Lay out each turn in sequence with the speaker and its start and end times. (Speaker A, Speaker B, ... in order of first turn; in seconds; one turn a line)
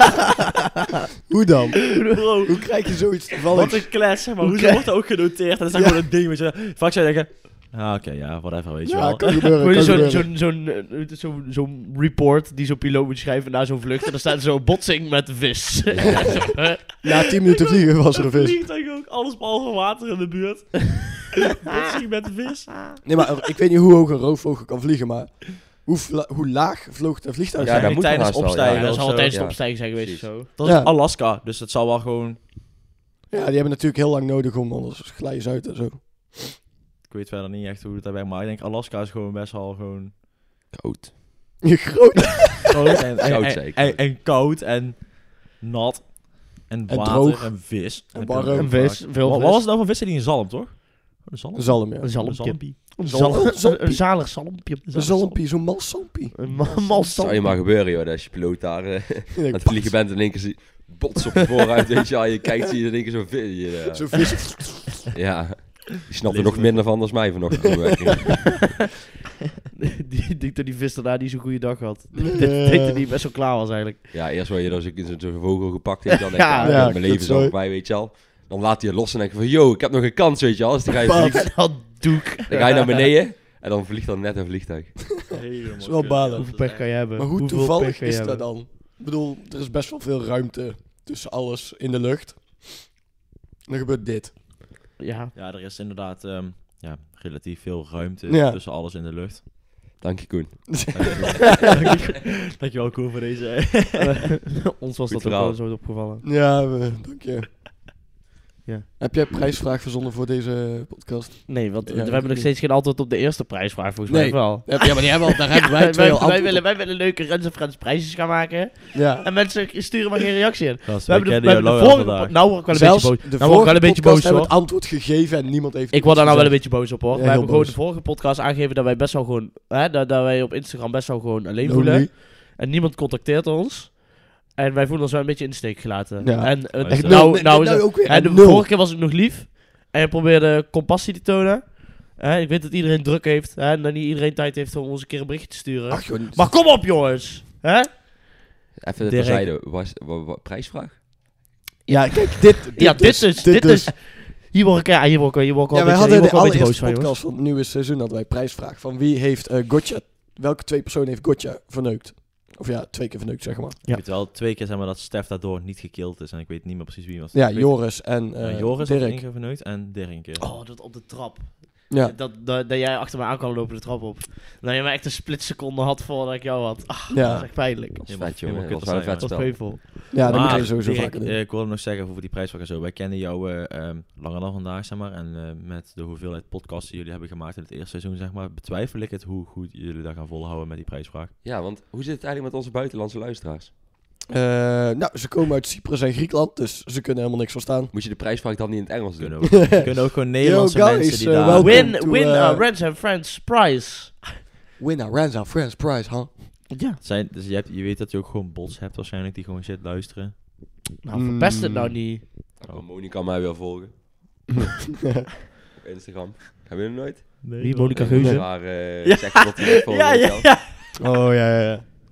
Speaker A: 1.3-4.0
Speaker B: 2.1-2.6
Speaker B: 3.5-10.1
Speaker C: 4.4-4.8
Speaker A: 8.8-10.3
Speaker C: 9.6-17.0
Speaker D: 15.9-16.6
Speaker A: 17.0-18.6
Speaker B: 18.2-23.0
Speaker A: 23.0-28.2
Speaker D: 27.6-30.3
Speaker B: 27.6-29.4
Speaker C: 28.6-30.5
Speaker B: 30.6-32.4
Speaker A: 30.6-30.9
Speaker A: 33.3-36.5
Speaker B: 37.1-40.2
Speaker D: 40.7-41.4
Speaker A: 41.6-42.7
Speaker B: 42.7-53.2
Speaker D: 43.2-44.0
Speaker A: 46.9-48.8
Speaker C: 48.5-49.6
Speaker A: 51.5-52.4
Speaker C: 52.0-55.3
Speaker A: 53.0-54.4
Speaker B: 54.9-55.4
Speaker A: 54.9-57.1
Speaker C: 56.3-57.5
Speaker D: 57.2-64.6
Speaker A: 59.3-60.0
Speaker A: 63.9-64.8
Speaker D: 65.1-68.8
Speaker B: 66.2-67.6
Speaker C: 69.8-74.1
Speaker A: 72.4-73.0
Speaker D: 74.1-85.0
Speaker C: 76.3-77.0
Speaker A: 76.6-77.5
Speaker A: 81.0-81.5
Speaker C: 81.1-83.0
Speaker B: 85.3-86.9
Speaker A: 85.8-93.0
Speaker C: 86.4-88.5
Speaker A: 93.6-94.3
Speaker C: 95.0-95.3
Speaker B: 95.3-99.4
Speaker A: 98.3-98.6
Speaker D: 100.0-101.3
Speaker B: 100.9-104.1
Speaker C: 104.0-106.2
Speaker D: 105.1-105.6
Speaker A: 106.2-107.5
Speaker A: 109.0-112.5
Speaker C: 111.5-124.6
Speaker A: 114.1-116.6
Speaker A: 118.9-119.3
Speaker B: 120.8-122.4
Speaker A: 122.7-127.8
Speaker C: 125.9-147.9
Speaker A: 131.6-132.1
Speaker A: 136.2-138.7
Speaker B: 136.8-137.3
Speaker A: 145.9-146.6
Speaker D: 148.8-151.0
Speaker B: 149.0-149.5
Speaker A: 151.9-153.9
Speaker C: 152.8-157.1
Speaker A: 155.7-163.8
Speaker B: 163.9-170.6
Speaker A: 167.3-169.2
Speaker C: 170.4-178.1
Speaker A: 171.9-172.2
Speaker A: 177.1-177.5
Speaker B: 177.2-191.3
Speaker D: 178.1-179.7
Speaker C: 179.2-180.4
Speaker A: 180.1-181.3
Speaker D: 191.4-193.7
Speaker A: 194.3-197.9
Speaker D: 197.9-199.9
Speaker B: 199.2-201.9
Speaker A: 199.6-202.7
Speaker C: 201.5-204.2
Speaker A: 204.8-206.4
Speaker C: 206.7-207.0
Speaker B: 207.0-210.4
Speaker C: 211.0-212.2
Speaker A: 211.1-212.0
Speaker D: 212.6-214.5
Speaker D: 215.8-220.5
Speaker B: 217.4-220.8
Speaker C: 217.6-218.4
Speaker A: 221.0-221.9